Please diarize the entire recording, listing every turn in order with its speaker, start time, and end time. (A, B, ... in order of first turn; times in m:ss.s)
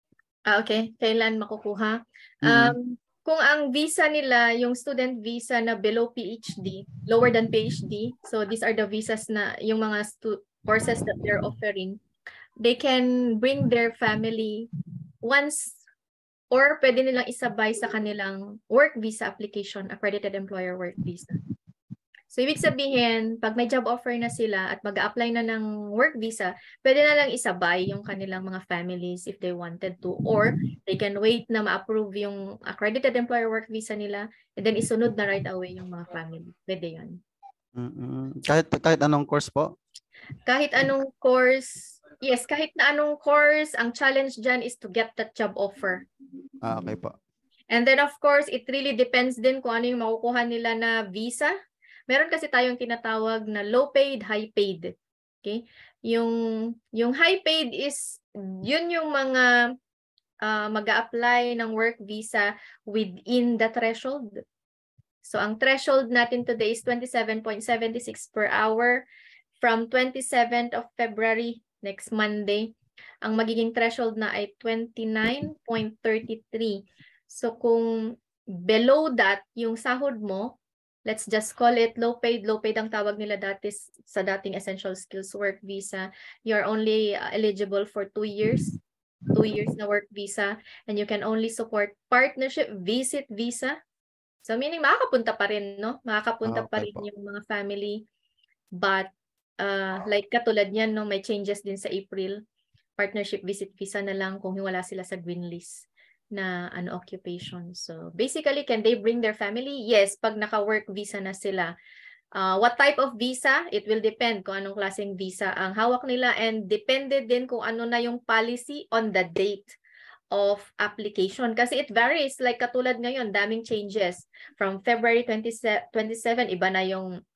0:00.5-0:12.0 A
0:02.4-0:02.8 B
0:12.6-0:14.7 A
0:15.2-0:15.8 A
0:16.5-0:21.4 A
0:22.3-0:37.2 A
0:37.8-0:39.7 B
0:40.4-0:46.1 A
0:46.6-0:47.1 B
0:47.7-0:51.5 A
0:52.1-0:54.9 A
0:55.4-0:59.6 A
1:00.4-1:04.3 A
1:05.2-1:09.1 A
1:09.6-1:28.7 A
1:29.4-1:33.8 A
1:34.4-1:38.0 A
1:36.4-1:37.0 B
1:38.8-1:42.4 A
1:43.0-1:51.7 A
1:52.4-1:59.8 A
2:00.3-2:07.2 A